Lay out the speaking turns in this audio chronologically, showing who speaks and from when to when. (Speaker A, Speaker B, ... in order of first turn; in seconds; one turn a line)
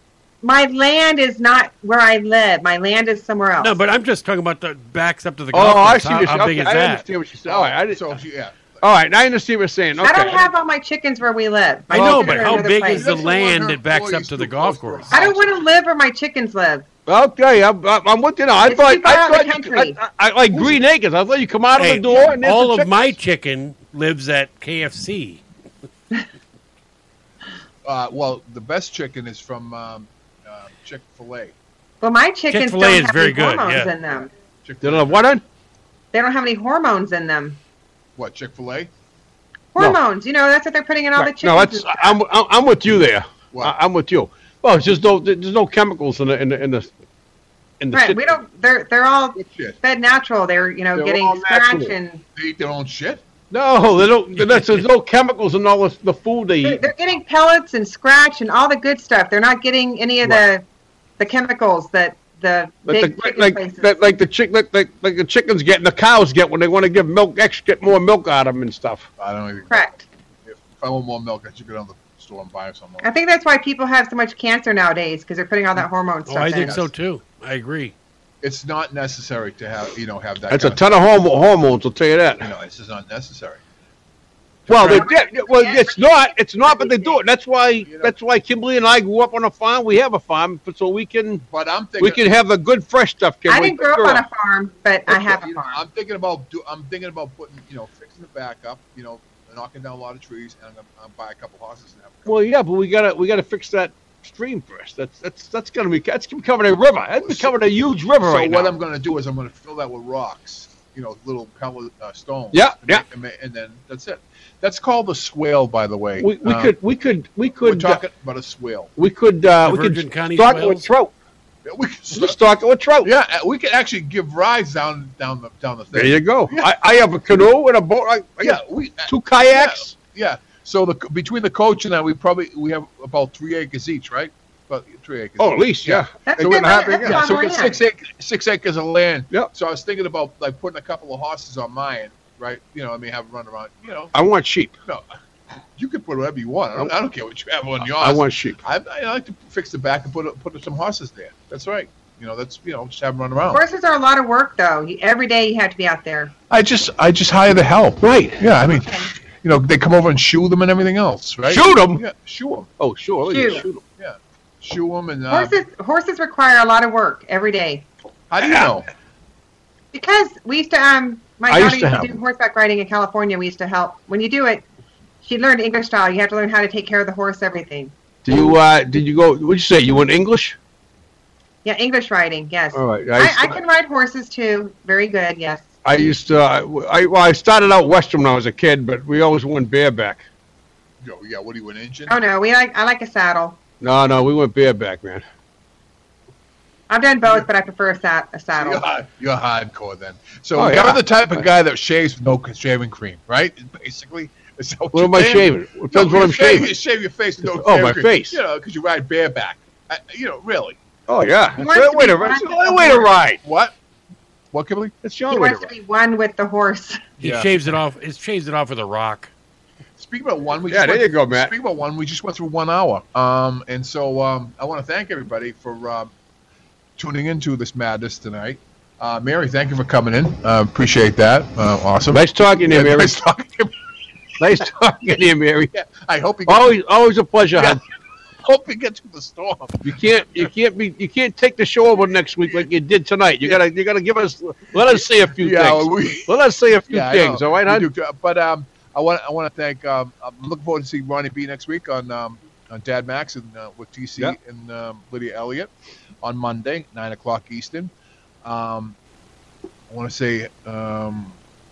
Speaker A: 0.4-3.8
Speaker B: 3.6-7.0
Speaker C: 5.5-8.2
Speaker D: 7.5-8.8
Speaker C: 8.8-10.5
Speaker A: 10.0-13.1
Speaker B: 11.9-15.2
Speaker C: 11.9-12.7
Speaker D: 12.8-15.5
Speaker A: 15.1-16.9
Speaker C: 17.1-23.2
Speaker A: 18.7-20.0
Speaker D: 20.5-20.8
Speaker B: 21.8-25.4
Speaker D: 27.9-31.6
Speaker A: 32.0-34.3
Speaker B: 32.5-33.9
Speaker D: 34.6-35.2
Speaker C: 34.8-35.4
Speaker A: 36.1-37.6
Speaker D: 38.2-38.9
Speaker A: 39.7-42.2
Speaker C: 41.2-46.9
Speaker C: 47.8-48.4
Speaker A: 47.9-52.2
Speaker D: 49.4-49.8
Speaker C: 51.0-51.9
Speaker D: 52.4-53.2
Speaker C: 53.5-56.9
Speaker B: 54.4-54.8
Speaker A: 56.6-60.6
Speaker A: 61.2-63.9
Speaker C: 62.9-69.1
Speaker D: 69.2-73.1
Speaker A: 69.7-70.0
Speaker A: 73.0-76.8
Speaker B: 76.3-77.9
Speaker D: 76.5-76.9
Speaker D: 78.4-80.9
Speaker C: 80.5-82.5
Speaker D: 82.4-83.6
Speaker D: 84.7-85.1
Speaker C: 84.7-91.4
Speaker A: 84.8-87.2
Speaker D: 87.8-88.2
Speaker D: 91.4-92.2
Speaker C: 92.0-94.3
Speaker A: 93.5-95.8
Speaker D: 95.1-102.5
Speaker C: 102.3-108.7
Speaker D: 107.2-107.6
Speaker D: 108.2-116.8
Speaker C: 112.5-113.0
Speaker C: 116.2-118.0
Speaker D: 117.6-118.9
Speaker C: 119.0-121.1
Speaker B: 119.6-120.9
Speaker D: 121.7-122.4
Speaker C: 122.1-123.1
Speaker D: 123.0-126.7
Speaker C: 125.9-129.9
Speaker D: 128.4-144.1
Speaker C: 135.4-137.4
Speaker A: 136.3-137.8
Speaker C: 144.1-144.7
Speaker D: 145.8-153.6
Speaker C: 147.8-148.6
Speaker A: 153.5-156.3
Speaker D: 156.5-162.7
Speaker C: 158.0-158.5
Speaker A: 158.7-159.1
Speaker C: 161.5-162.0
Speaker C: 162.8-163.8
Speaker A: 163.3-163.7
Speaker D: 164.0-165.6
Speaker A: 165.3-167.9
Speaker D: 168.3-168.9
Speaker C: 168.4-168.7
Speaker A: 169.9-174.6
Speaker C: 171.5-172.2
Speaker A: 175.2-177.9
Speaker C: 178.2-180.6
Speaker A: 181.6-185.7
Speaker C: 182.8-183.6
Speaker C: 185.8-190.3
Speaker D: 191.0-192.2
Speaker A: 192.1-193.6
Speaker C: 193.8-195.3
Speaker A: 196.9-198.8
Speaker D: 198.5-210.8
Speaker C: 200.6-201.0
Speaker C: 204.9-206.7
Speaker C: 207.4-208.4
Speaker C: 211.1-213.4
Speaker A: 211.6-213.1
Speaker D: 213.4-213.8
Speaker D: 214.5-214.9
Speaker C: 215.0-215.7
Speaker A: 215.3-217.0
Speaker B: 217.2-219.3
Speaker D: 217.2-217.5
Speaker D: 220.0-226.1
Speaker C: 220.7-221.5
Speaker D: 227.0-233.8
Speaker C: 232.1-233.1
Speaker C: 234.4-235.7
Speaker D: 235.7-236.8
Speaker C: 236.5-237.8
Speaker D: 237.5-240.5
Speaker C: 239.8-247.9
Speaker D: 244.8-246.4
Speaker D: 246.9-255.7
Speaker D: 256.2-257.9
Speaker D: 258.4-259.0
Speaker D: 259.9-261.4